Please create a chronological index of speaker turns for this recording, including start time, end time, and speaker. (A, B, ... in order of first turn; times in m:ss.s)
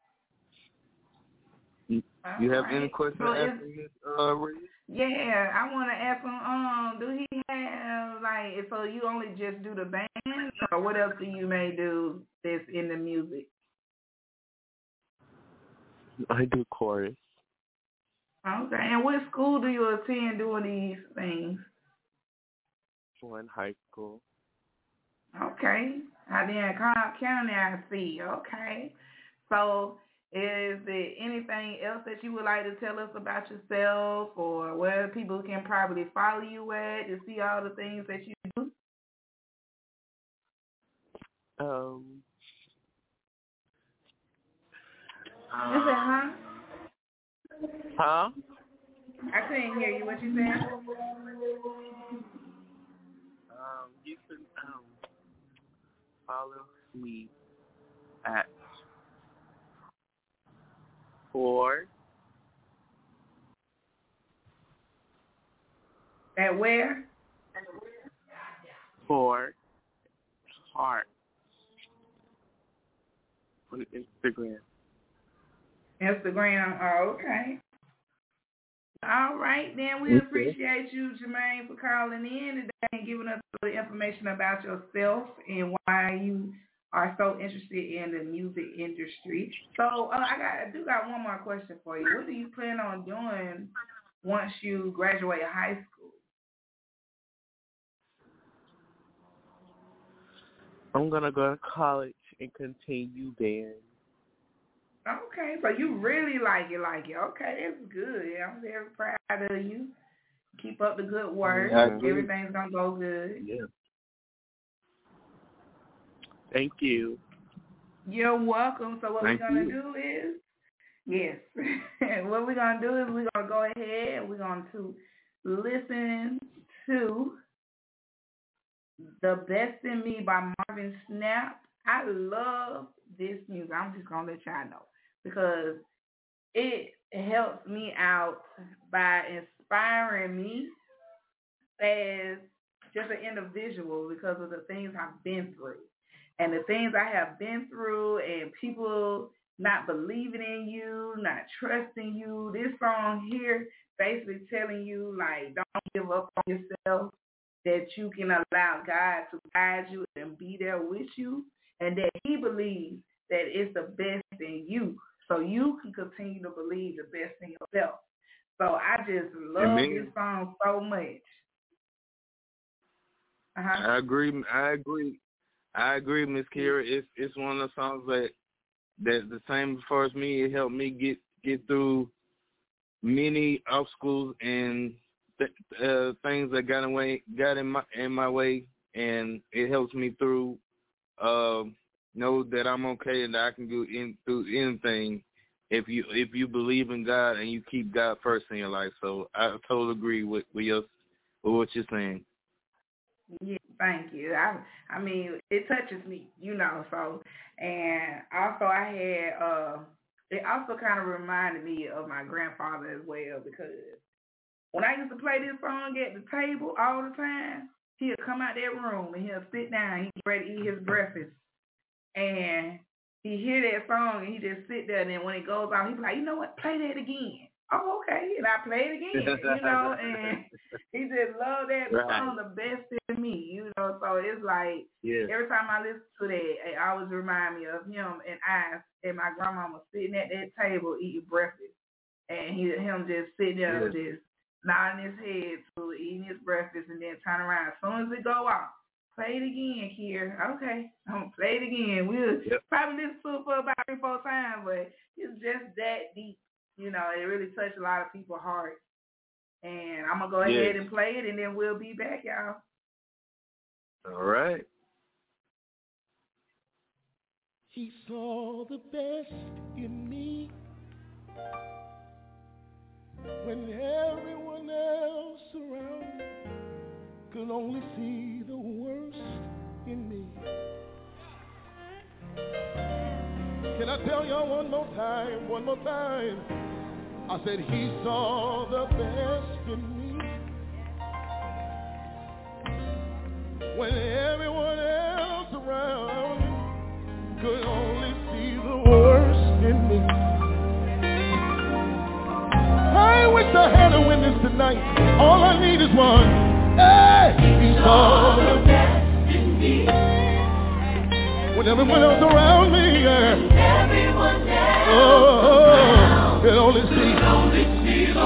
0:01.9-0:04.7 A
0:02.2-0:03.6 B
0:04.9-0:13.5 B
0:16.2-0:17.2 C
0:18.4-0:21.6 B
0:23.2-0:24.2 C
0:25.4-0:28.9 B
0:29.5-0:38.7 B
0:41.6-0:42.2 C
0:45.5-0:46.2 C
0:45.7-0:46.4 B
0:48.0-0:48.3 C
0:49.3-0:50.7 B
0:53.5-0:54.9 C
0:56.3-0:57.3 C
0:58.2-0:58.6 C
1:01.3-1:01.9 C
1:06.4-1:07.0 B
1:09.0-1:09.6 C
1:10.7-1:11.1 C
1:13.7-1:14.6 C
1:16.0-1:17.6 B
1:19.0-1:33.7 B
1:20.1-1:20.5 A
1:34.2-1:36.2 B
1:40.9-1:43.8 C
1:45.0-1:49.9 B
1:50.6-1:53.4 B
1:51.6-1:52.0 C
1:51.6-1:52.3 A
1:53.4-1:53.6 A
1:56.5-1:57.2 C
1:58.0-2:00.4 B
1:59.2-1:59.7 A
2:01.1-2:07.4 B
2:09.2-2:15.8 B
2:16.5-2:20.7 B
2:21.8-2:48.0 B
2:48.6-2:51.4 B
2:49.6-2:50.1 A
2:53.6-2:53.9 B
2:53.7-2:55.2 A
2:55.7-2:58.3 A
2:59.0-3:02.1 A
3:03.0-3:10.6 A
3:11.2-3:20.9 A
3:21.4-3:22.2 A
3:23.3-3:34.0 B
3:34.7-3:41.4 B
3:42.2-4:01.7 B
3:49.1-3:50.3 A
3:51.9-3:52.3 A
3:55.0-3:55.3 A
4:02.3-4:18.8 B
4:03.7-4:03.9 A
4:19.6-4:22.6 B
4:20.4-4:20.8 A
4:24.0-4:24.6 A
4:27.7-4:30.5 D
4:33.4-4:36.2 D
4:37.3-4:40.4 D
4:43.7-4:46.4 D
4:47.3-4:50.3 D
4:53.7-4:56.6 D
4:57.4-5:00.1 D
5:02.9-5:08.8 D
5:11.5-5:13.5 D
5:14.7-5:17.4 D